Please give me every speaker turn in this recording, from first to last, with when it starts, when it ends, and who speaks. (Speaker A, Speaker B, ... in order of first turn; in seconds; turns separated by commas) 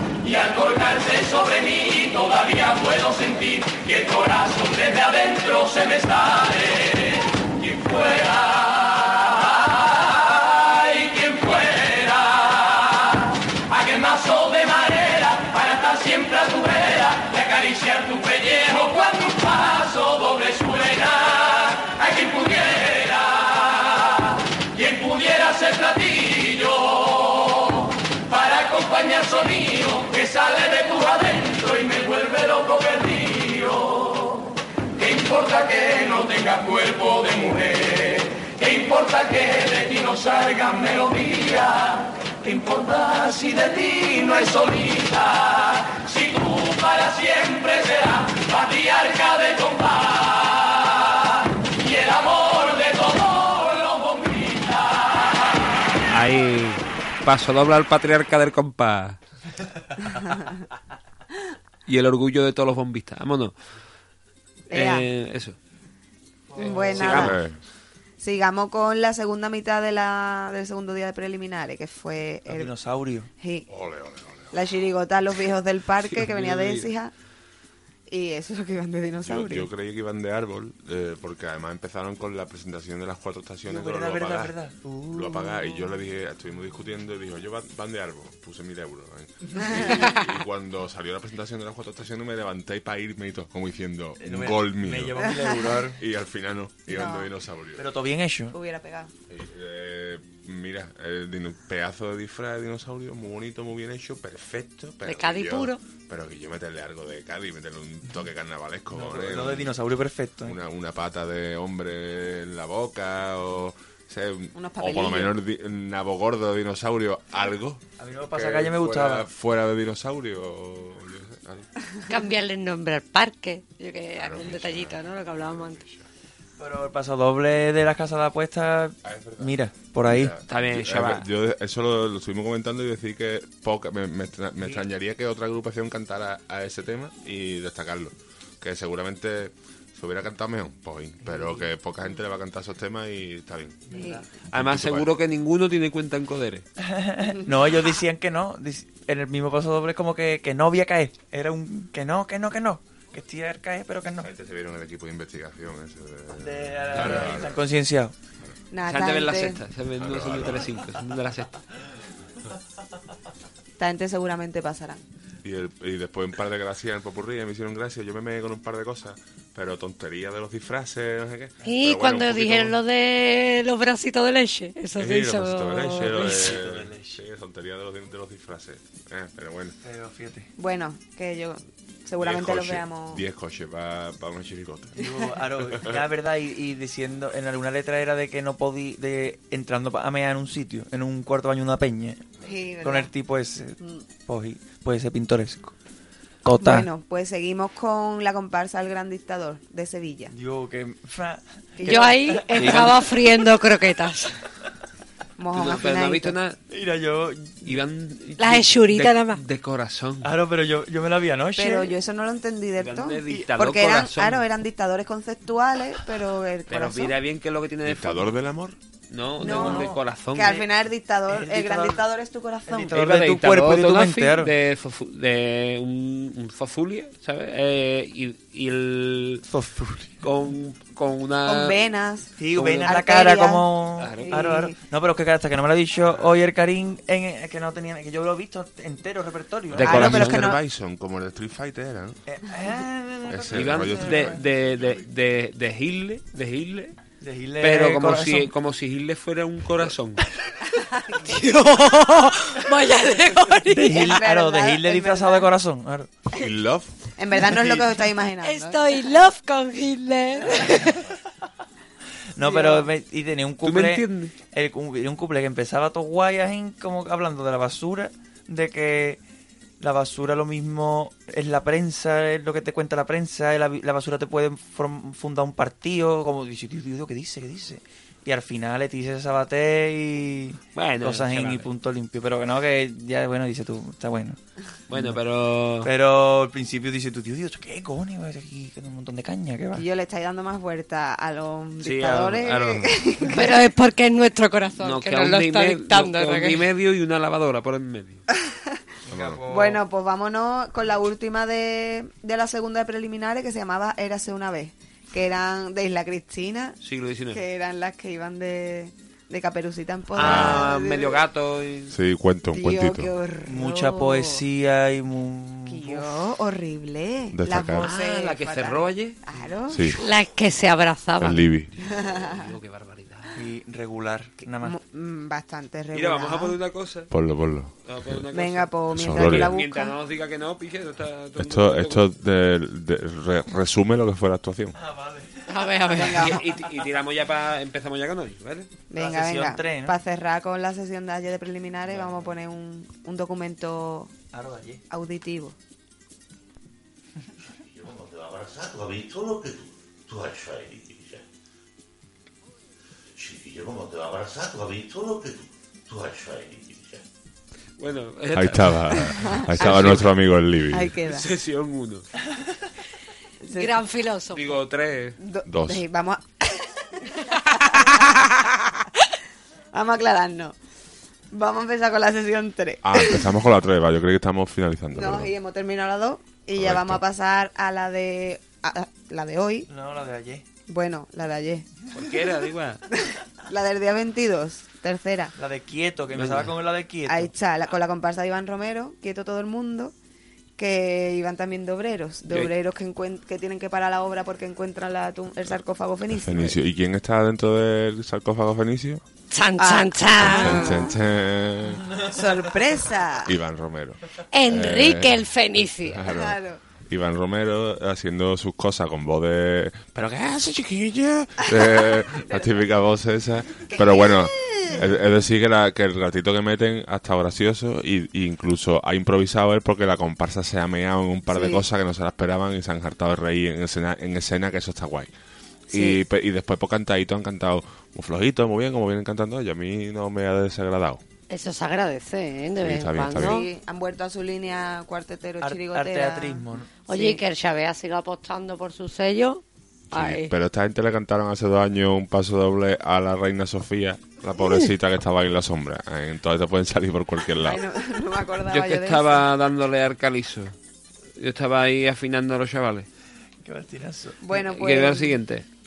Speaker A: 0.2-8.7, Speaker A: 10.8-12.3, Speaker A: 13.7-23.4, Speaker A: 24.8-27.2, Speaker A: 28.3-34.1, Speaker A: 35.0-50.1, Speaker A: 51.9-54.4, Speaker B: 56.1-59.2, Speaker C: 60.1-60.5, Speaker B: 61.9-63.5, Speaker C: 64.7-65.1, Speaker B: 64.7-65.5, Speaker D: 66.5-67.2, Speaker C: 66.6-67.3, Speaker B: 66.7-67.4, Speaker E: 67.0-67.6, Speaker C: 68.2-72.7, Speaker D: 72.5-73.3, Speaker C: 73.4-73.7, Speaker E: 73.7-74.5, Speaker C: 74.5-77.1, Speaker B: 76.1-76.9, Speaker C: 78.1-79.7, Speaker E: 79.2-84.5, Speaker D: 83.6-85.8, Speaker E: 85.1-95.3, Speaker D: 94.2-96.0, Speaker C: 95.3-95.5, Speaker E: 96.0-97.8, Speaker C: 96.9-97.3, Speaker D: 97.8-98.5, Speaker C: 98.5-99.1, Speaker E: 99.3-109.7, Speaker F: 105.0-105.8, Speaker D: 108.9-110.6, Speaker E: 110.4-121.7, Speaker C: 114.5-115.3, Speaker D: 118.0-119.3, Speaker F: 122.1-125.8, Speaker E: 124.1-126.0, Speaker D: 126.6-130.3, Speaker E: 129.0-144.0, Speaker B: 130.5-131.3, Speaker D: 134.6-134.8, Speaker D: 141.2-141.7, Speaker D: 143.9-144.2, Speaker C: 143.9-144.2, Speaker E: 144.5-145.1, Speaker B: 144.5-146.6, Speaker D: 146.8-154.3, Speaker E: 154.2-157.6, Speaker D: 156.3-158.1, Speaker C: 158.7-159.6, Speaker B: 158.8-161.6, Speaker E: 160.0-160.8, Speaker C: 163.8-165.0, Speaker E: 165.4-172.8, Speaker F: 171.6-176.5, Speaker E: 175.0-179.8, Speaker D: 176.0-177.2, Speaker D: 179.8-180.5, Speaker C: 180.6-183.2, Speaker E: 182.2-185.0, Speaker D: 184.9-195.7, Speaker C: 192.4-193.1, Speaker C: 193.8-194.0, Speaker D: 196.4-196.9, Speaker C: 196.6-200.3, Speaker D: 200.3-203.1, Speaker C: 201.8-202.1, Speaker F: 201.8-204.4, Speaker C: 205.4-206.3, Speaker B: 205.5-206.6, Speaker D: 206.7-207.8, Speaker B: 207.6-210.3, Speaker F: 208.4-209.4, Speaker D: 210.2-211.9, Speaker C: 211.6-217.2, Speaker B: 212.8-214.4, Speaker B: 216.7-218.3, Speaker E: 217.8-218.8, Speaker B: 219.1-220.7, Speaker D: 219.4-220.0, Speaker C: 219.4-223.0, Speaker D: 221.3-222.0, Speaker D: 222.7-224.5, Speaker B: 222.9-229.4, Speaker D: 229.4-230.2, Speaker B: 230.2-231.8, Speaker C: 231.4-232.3, Speaker D: 232.4-240.5, Speaker B: 232.5-233.0, Speaker C: 232.8-234.8, Speaker B: 234.0-234.4, Speaker E: 239.7-242.2, Speaker B: 239.7-240.5, Speaker C: 239.8-240.6, Speaker D: 242.2-244.4, Speaker E: 243.3-244.5, Speaker B: 243.5-246.9, Speaker D: 247.2-248.5, Speaker B: 247.6-250.2, Speaker F: 251.2-254.2, Speaker D: 253.7-256.1, Speaker C: 253.9-255.5, Speaker E: 256.3-256.9, Speaker C: 257.1-258.8, Speaker F: 258.4-260.9, Speaker D: 260.7-261.0, Speaker D: 262.3-269.2, Speaker C: 262.4-262.9, Speaker B: 263.6-264.3, Speaker D: 269.8-284.4, Speaker B: 280.7-281.7, Speaker B: 284.9-285.9, Speaker D: 284.9-285.2, Speaker D: 285.8-289.8, Speaker C: 289.7-293.5, Speaker B: 291.8-292.9, Speaker F: 293.3-296.7, Speaker B: 294.8-298.2, Speaker D: 299.1-299.8, Speaker E: 299.1-299.4, Speaker C: 299.5-306.8, Speaker B: 306.8-307.4, Speaker C: 307.3-311.2, Speaker B: 310.1-311.9, Speaker E: 310.2-310.7, Speaker D: 310.2-310.4, Speaker E: 311.9-313.1, Speaker C: 312.5-314.4, Speaker D: 313.4-316.2, Speaker C: 315.7-319.9, Speaker E: 317.3-317.9, Speaker B: 317.8-319.2, Speaker E: 319.7-320.0, Speaker F: 319.9-321.5, Speaker E: 321.2-321.7, Speaker B: 321.8-323.4, Speaker C: 321.8-322.4, Speaker D: 323.4-324.8, Speaker C: 324.6-326.6, Speaker B: 325.9-327.1, Speaker E: 327.1-328.2, Speaker B: 327.8-332.0, Speaker C: 328.3-330.0, Speaker E: 328.9-329.5, Speaker E: 331.4-334.8, Speaker D: 334.8-336.9, Speaker F: 335.5-336.3, Speaker C: 335.9-336.4, Speaker B: 336.0-338.7, Speaker C: 338.9-344.1, Speaker D: 338.9-339.9, Speaker D: 344.3-344.8, Speaker C: 344.9-345.6, Speaker G: 347.5-351.2, Speaker G: 353.1-357.0, Speaker B: 357.8-360.1, Speaker E: 358.3-360.9, Speaker C: 359.1-360.1, Speaker C: 360.7-361.3, Speaker B: 361.0-362.1, Speaker C: 363.4-363.7, Speaker F: 363.5-364.5, Speaker B: 364.3-365.2, Speaker C: 365.2-366.5, Speaker E: 365.4-365.9, Speaker C: 367.1-368.8, Speaker C: 369.7-370.5, Speaker C: 371.3-373.2, Speaker E: 372.8-375.3, Speaker C: 374.9-379.7, Speaker E: 376.6-377.0, Speaker D: 379.7-380.4, Speaker C: 380.7-381.6, Speaker B: 381.9-382.8, Speaker C: 383.5-385.3, Speaker D: 385.4-387.3, Speaker B: 386.1-386.5, Speaker C: 387.1-389.9, Speaker C: 390.6-396.6, Speaker E: 396.1-399.0, Speaker F: 399.3-400.9, Speaker C: 399.6-400.9, Speaker E: 400.1-402.0, Speaker C: 402.1-403.3, Speaker E: 403.2-406.4, Speaker F: 404.3-406.0, Speaker C: 406.0-406.6, Speaker E: 406.9-425.1, Speaker C: 411.4-412.6, Speaker C: 413.7-414.8, Speaker C: 421.3-421.6, Speaker C: 425.7-426.0, Speaker E: 425.7-431.0, Speaker F: 431.3-433.5, Speaker E: 432.6-433.4, Speaker C: 433.2-437.2, Speaker D: 435.4-436.7, Speaker F: 436.9-440.3, Speaker E: 439.9-447.6, Speaker C: 447.4-449.3, Speaker B: 448.5-450.5, Speaker B: 451.1-452.9, Speaker D: 453.4-454.2, Speaker C: 454.2-455.2, Speaker B: 454.3-455.4